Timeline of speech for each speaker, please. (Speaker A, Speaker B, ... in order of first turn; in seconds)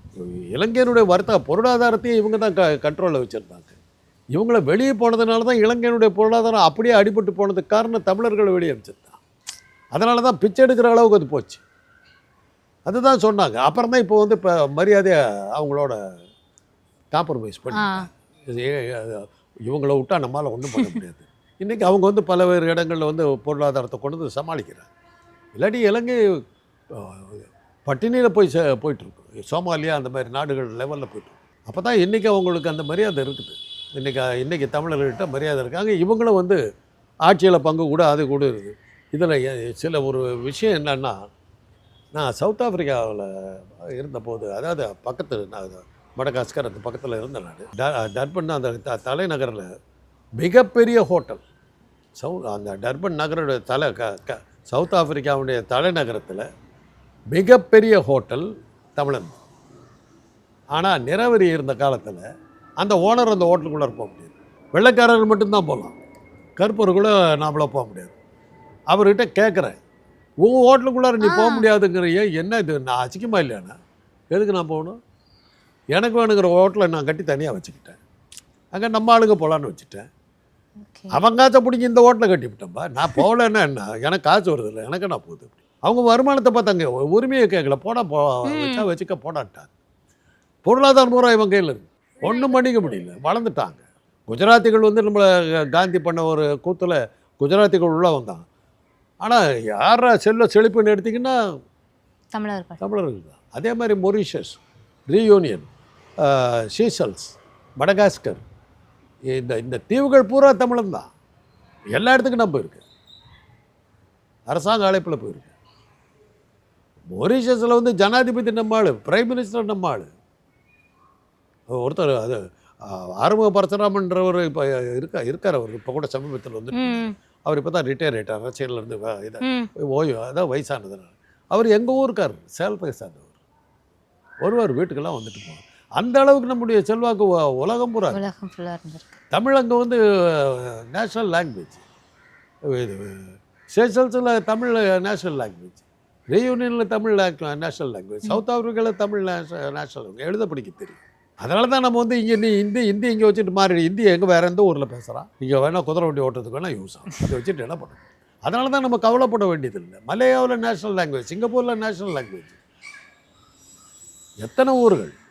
Speaker A: 0.2-3.8, 4.3-9.2, 9.9-11.6, 12.9-16.0, 17.1-24.9, 25.6-26.2, 26.9-36.6, 37.3-41.2, 42.1-49.7, 50.4-51.4, 52.2-56.4, 57.3-59.4, 60.7-62.2, 62.8-66.0, 66.6-68.2, 68.9-69.8, 70.4-73.8, 74.3-75.0, 75.9-78.0, 78.7-80.1, 81.1-89.7, 90.7-98.5, 99.2-101.3, 102.8-104.6, 105.1-105.7, 106.2-108.4, 109.3-111.1, 112.0-112.8, 114.5-115.5, 117.1-120.1, 121.7-133.3, 134.4-138.2, 139.3-141.8, 142.7-162.6, 164.4-165.2
Speaker B: 17.8-18.1, 71.2-71.6, 80.9-81.1, 88.5-88.9, 102.3-102.8, 126.8-127.1, 138.1-139.2